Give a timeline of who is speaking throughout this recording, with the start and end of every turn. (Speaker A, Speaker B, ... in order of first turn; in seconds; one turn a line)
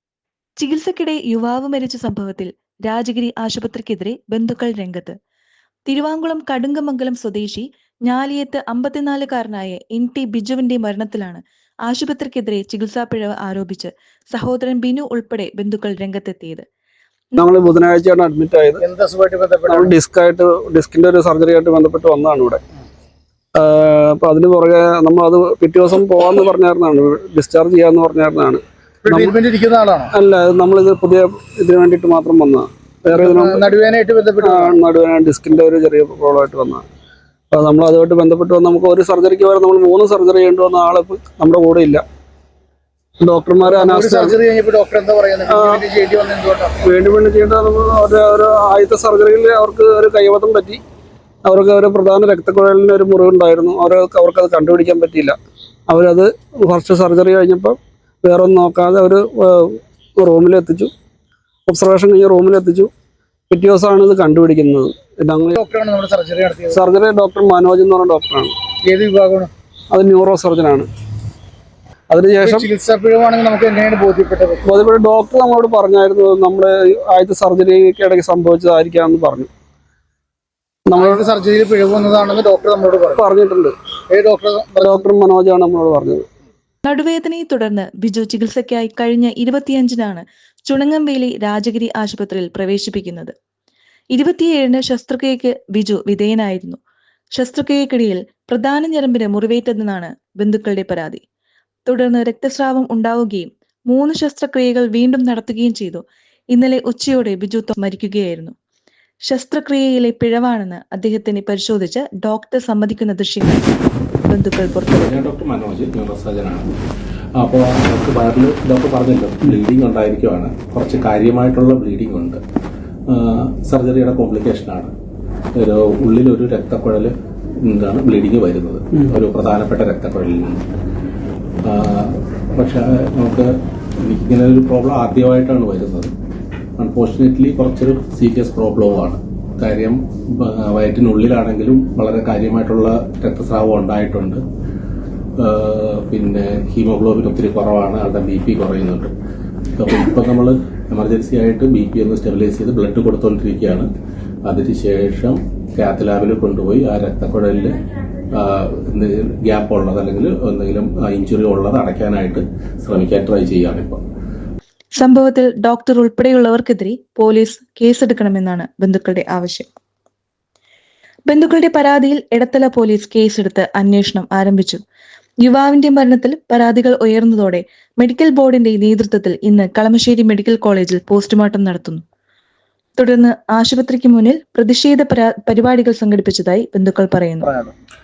Speaker A: 0.6-5.2
Speaker A: 5.8-16.6
Speaker B: 17.4-18.8
Speaker C: 18.8-19.9
Speaker B: 19.7-22.6
Speaker B: 23.6-29.4
Speaker C: 29.0-30.1
Speaker B: 30.1-33.7
Speaker C: 33.1-34.8
Speaker B: 34.4-36.8
Speaker B: 37.5-42.0
Speaker B: 43.2-44.4
Speaker C: 43.6-46.7
Speaker B: 45.5-45.8
Speaker B: 46.8-50.8
Speaker B: 51.4-55.4
Speaker B: 55.9-60.9
Speaker B: 61.7-62.9
Speaker B: 63.5-65.6
Speaker C: 65.5-66.8
Speaker B: 66.7-68.5
Speaker C: 68.8-69.5
Speaker B: 69.9-70.9
Speaker B: 72.1-72.7
Speaker C: 72.4-74.7
Speaker B: 74.7-79.5
Speaker B: 80.9-81.2
Speaker C: 80.9-83.2
Speaker B: 83.2-83.7
Speaker C: 84.1-85.1
Speaker B: 84.8-86.2
Speaker A: 86.8-93.3
Speaker A: 94.1-96.8
Speaker A: 97.3-101.2
Speaker A: 101.8-108.5
Speaker A: 109.3-113.7
Speaker A: 114.2-115.3
Speaker D: 114.9-116.7
Speaker D: 117.4-122.4
Speaker D: 123.1-124.9
Speaker D: 125.6-127.1
Speaker D: 127.6-130.6
Speaker D: 131.6-136.1
Speaker D: 136.8-144.4
Speaker D: 145.4-149.1
Speaker D: 149.8-153.9
Speaker D: 154.4-164.0
Speaker A: 165.0-169.7
Speaker A: 171.3-174.8
Speaker A: 175.4-182.0
Speaker A: 183.0-187.5